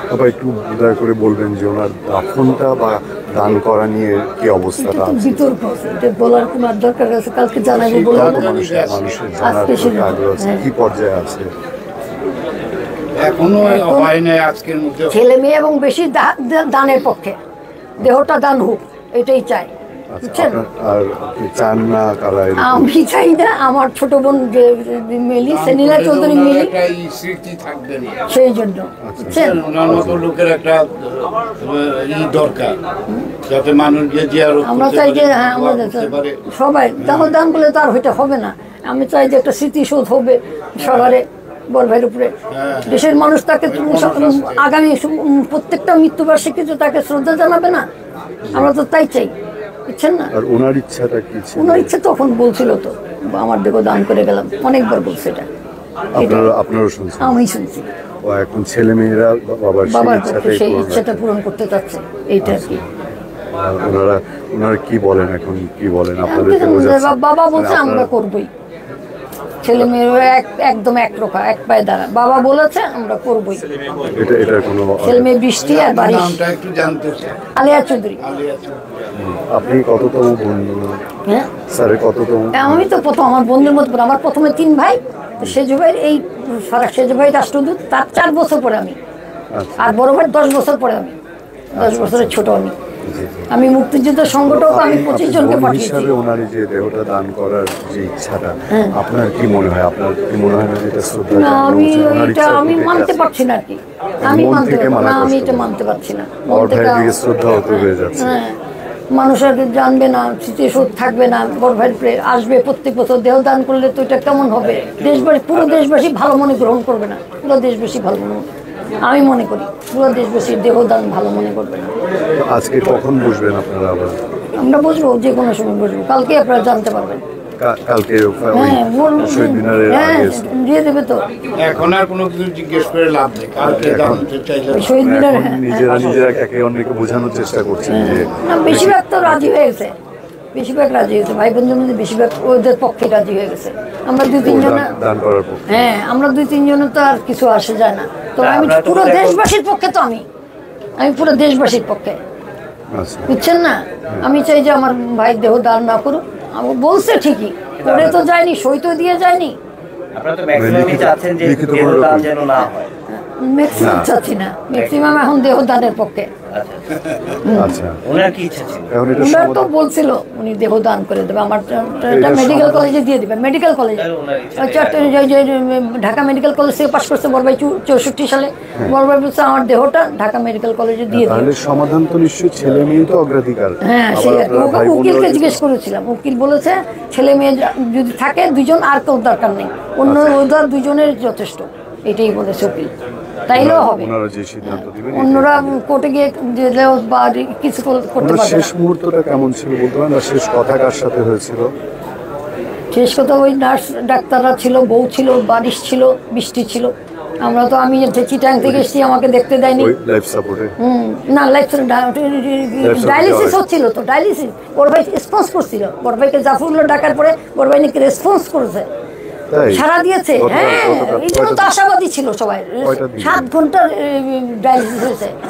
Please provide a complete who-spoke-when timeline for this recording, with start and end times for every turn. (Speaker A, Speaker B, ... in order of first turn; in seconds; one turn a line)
Speaker A: 0.1-5.4
Speaker B: 4.8-8.5
Speaker C: 7.6-9.1
Speaker A: 8.1-11.5
Speaker B: 9.4-10.6
Speaker C: 13.1-15.2
Speaker B: 13.6-14.1
Speaker B: 15.1-17.4
Speaker B: 18.0-19.7
Speaker A: 20.1-22.9
Speaker B: 20.2-20.6
Speaker B: 22.6-26.8
Speaker C: 25.4-28.2
Speaker B: 28.3-29.6
Speaker A: 29.0-30.2
Speaker C: 29.3-32.8
Speaker C: 33.4-36.4
Speaker B: 34.6-42.3
Speaker C: 37.0-37.4
Speaker C: 40.8-41.1
Speaker C: 42.5-44.7
Speaker B: 42.9-47.9
Speaker A: 48.5-48.7
Speaker B: 48.5-49.3
Speaker B: 49.9-50.3
Speaker A: 50.3-51.9
Speaker B: 51.5-55.5
Speaker A: 56.1-57.4
Speaker B: 56.1-56.5
Speaker B: 57.2-57.9
Speaker A: 58.2-61.2
Speaker B: 59.9-62.8
Speaker A: 62.4-62.9
Speaker A: 63.5-68.1
Speaker B: 66.3-68.5
Speaker B: 69.6-73.7
Speaker A: 74.0-75.3
Speaker B: 75.0-76.4
Speaker C: 75.5-77.5
Speaker B: 77.5-78.2
Speaker C: 78.2-79.1
Speaker A: 79.2-81.0
Speaker B: 81.2-81.5
Speaker A: 81.7-82.8
Speaker B: 82.5-89.0
Speaker A: 89.5-90.0
Speaker B: 89.8-91.2
Speaker A: 91.7-92.4
Speaker B: 91.7-92.7
Speaker A: 93.0-93.5
Speaker B: 93.5-96.1
Speaker A: 94.4-103.2
Speaker B: 98.7-99.0
Speaker B: 101.3-107.1
Speaker A: 104.2-105.7
Speaker A: 106.5-108.4
Speaker B: 107.6-108.6
Speaker B: 109.1-118.5
Speaker B: 119.0-121.9
Speaker A: 122.3-124.2
Speaker B: 124.5-127.2
Speaker A: 127.6-130.5
Speaker B: 128.5-131.2
Speaker C: 131.6-134.9
Speaker A: 133.6-134.2
Speaker B: 134.7-135.8
Speaker A: 134.9-139.5
Speaker B: 137.9-139.9
Speaker B: 140.5-144.9
Speaker A: 144.4-145.9
Speaker B: 145.7-150.2
Speaker D: 148.4-149.4
Speaker B: 151.0-152.2
Speaker A: 152.9-153.3
Speaker B: 153.3-159.6
Speaker D: 157.8-158.1
Speaker D: 160.1-162.9
Speaker A: 160.5-162.3
Speaker B: 163.1-166.3
Speaker A: 163.7-164.1
Speaker D: 164.7-165.1
Speaker D: 166.5-167.4
Speaker B: 167.4-167.8
Speaker A: 167.5-168.0
Speaker D: 168.0-168.9
Speaker A: 168.9-169.7
Speaker B: 169.2-181.5
Speaker A: 172.1-173.0
Speaker D: 173.9-175.2
Speaker A: 181.1-185.6
Speaker B: 183.8-192.9
Speaker A: 190.0-190.4
Speaker B: 193.4-194.1
Speaker A: 193.5-195.8
Speaker B: 194.6-198.7
Speaker A: 198.2-201.7
Speaker B: 202.9-209.9
Speaker A: 209.7-210.7
Speaker B: 210.8-218.9
Speaker A: 212.8-213.6
Speaker A: 219.5-221.7
Speaker B: 219.7-225.4
Speaker A: 222.8-223.5